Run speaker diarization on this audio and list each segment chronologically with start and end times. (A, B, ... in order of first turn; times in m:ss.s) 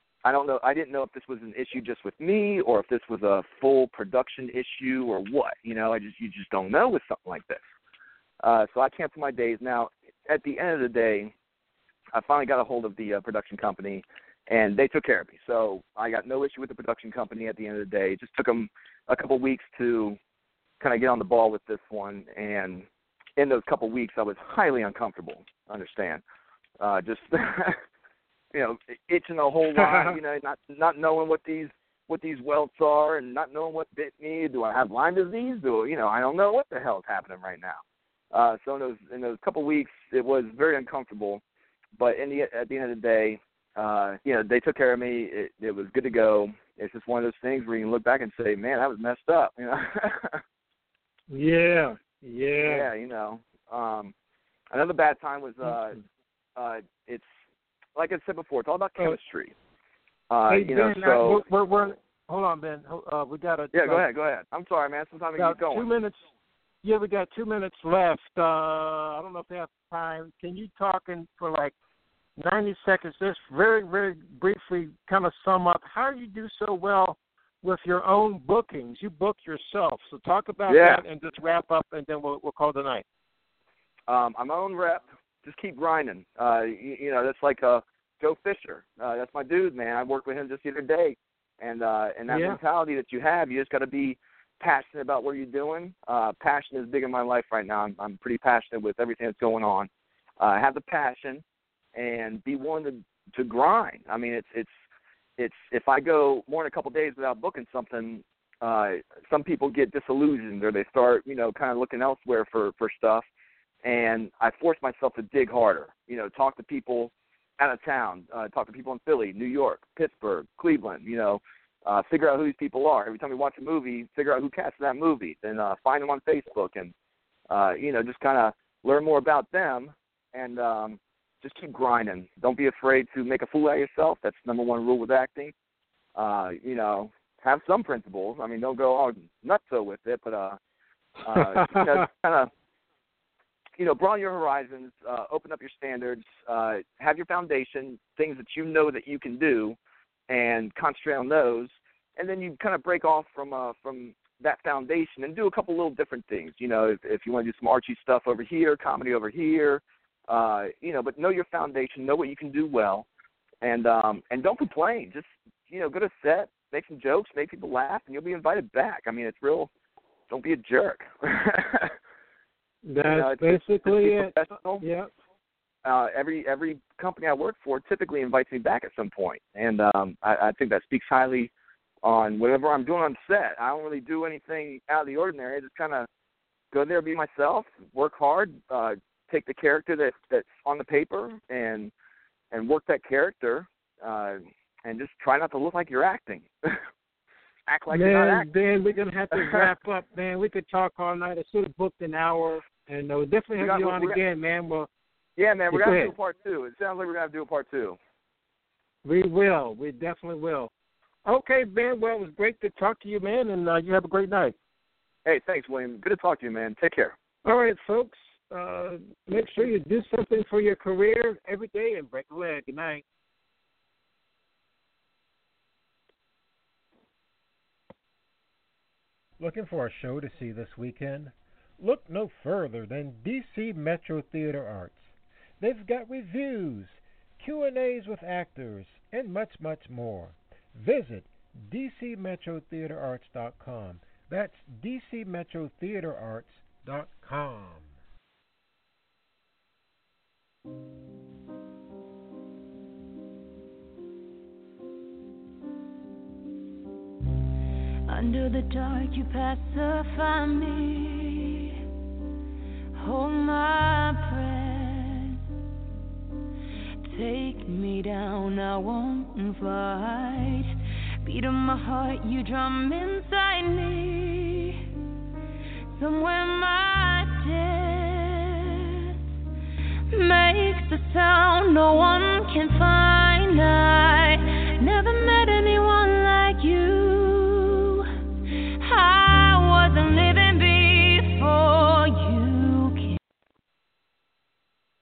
0:00.2-0:07.6 A
0:08.4-0:11.3 A
0:12.1-0:20.2 A
0:20.8-0:22.9 A
0:23.4-0:26.2 A
0:26.8-0:27.8 A
0:28.5-0:37.8 A
0:38.3-0:41.4 A
0:42.0-0:50.4 A
0:51.3-0:52.9 B
0:52.6-0:54.1 A
0:54.7-0:56.0 A
0:56.6-0:57.3 A
0:58.0-0:59.5 A
1:00.3-1:01.4 A
1:00.5-1:04.1 B
1:03.7-1:05.9 A
1:05.4-1:06.2 B
1:06.8-1:11.7 B
1:12.4-1:23.0 B
1:20.7-1:21.0 A
1:24.1-1:39.9 A
1:32.3-1:32.6 B
1:40.4-1:41.4 A
1:42.0-1:44.8 A
1:45.4-1:53.2 A
1:53.8-2:06.9 A
2:07.5-2:15.5 A
2:16.2-2:20.6 A
2:21.2-2:22.5 A
2:21.4-2:22.0 B
2:23.8-2:29.8 A
2:30.3-2:43.1 A
2:43.6-2:49.7 A
2:50.3-2:52.0 A
2:52.8-2:55.1 B
2:53.0-2:54.8 A
2:55.8-3:01.5 A
3:02.0-3:06.1 A
3:06.7-3:11.9 A
3:12.5-3:16.8 A
3:17.7-3:18.5 A
3:17.9-3:24.9 B
3:19.3-3:19.7 A
3:23.6-3:24.2 A
3:25.4-3:28.0 A
3:25.7-3:26.1 B
3:29.0-3:30.7 B
3:31.3-3:34.6 B
3:35.2-3:37.2 A
3:37.4-3:43.0 B
3:49.4-4:07.9 C
4:18.1-4:21.8 D
4:23.0-4:25.4 D
4:27.0-4:34.9 D
4:35.9-4:39.2 D
4:40.1-4:48.1 D
4:48.8-4:53.2 D